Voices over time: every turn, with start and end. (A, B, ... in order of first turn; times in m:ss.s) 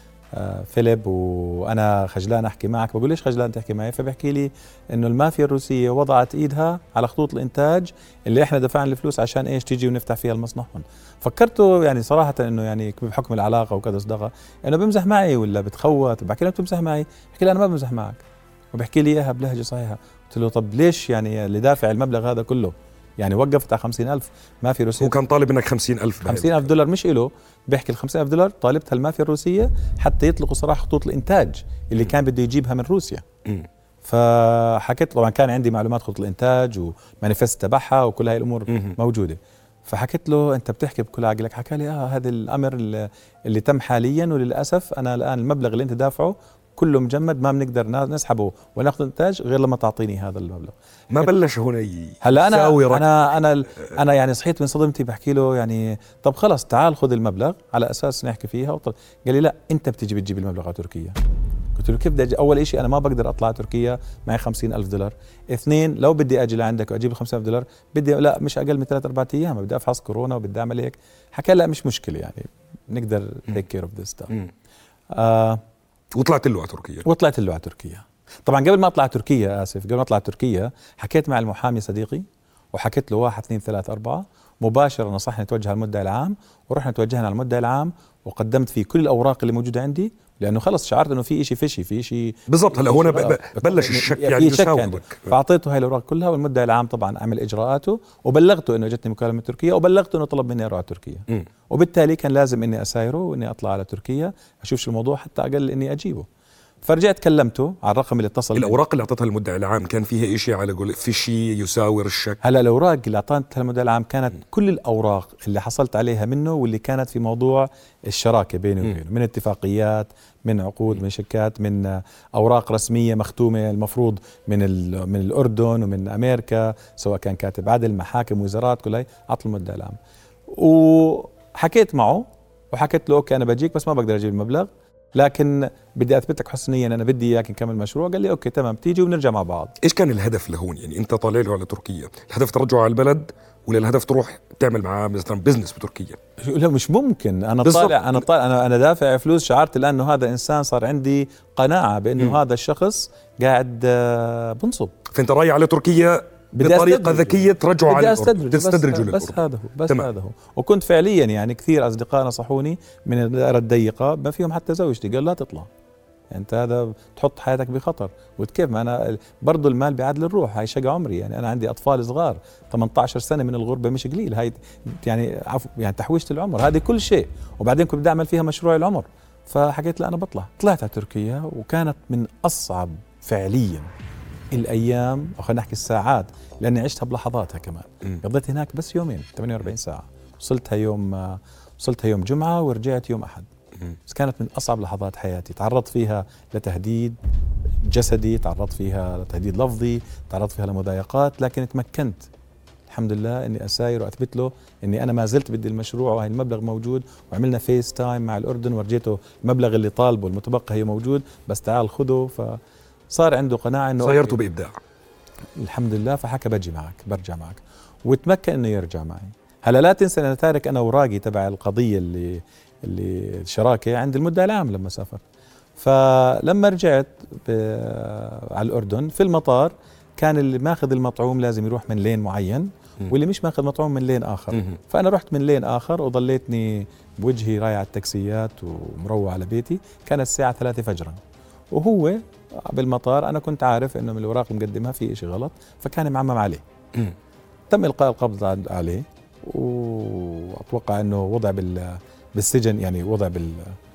0:00.3-0:25.1 A
0:25.0-0:26.7 B
0:26.2-0:33.2 A
0:34.0-0:50.7 A
0:38.7-0:38.9 B
0:51.1-0:53.1 B
0:52.2-1:01.2 A
1:01.8-1:14.3 A
1:15.1-1:15.6 A
1:16.1-1:17.0 B
1:17.0-1:46.3 A
1:32.5-1:35.3 B
1:46.8-1:48.8 A
1:48.5-1:52.4 B
1:52.4-2:19.7 A
2:19.8-2:26.2 B
2:26.4-2:34.9 A
2:27.6-2:28.0 B
2:35.1-2:40.1 B
2:36.5-2:45.7 A
2:46.3-3:03.9 A
3:04.5-3:13.5 A
3:14.1-3:17.2 A
3:17.8-3:22.3 A
3:22.9-3:34.4 A
3:34.0-3:34.8 B
3:35.6-3:45.2 A
3:45.8-4:01.2 A
4:01.7-4:06.6 A
4:07.7-4:13.8 A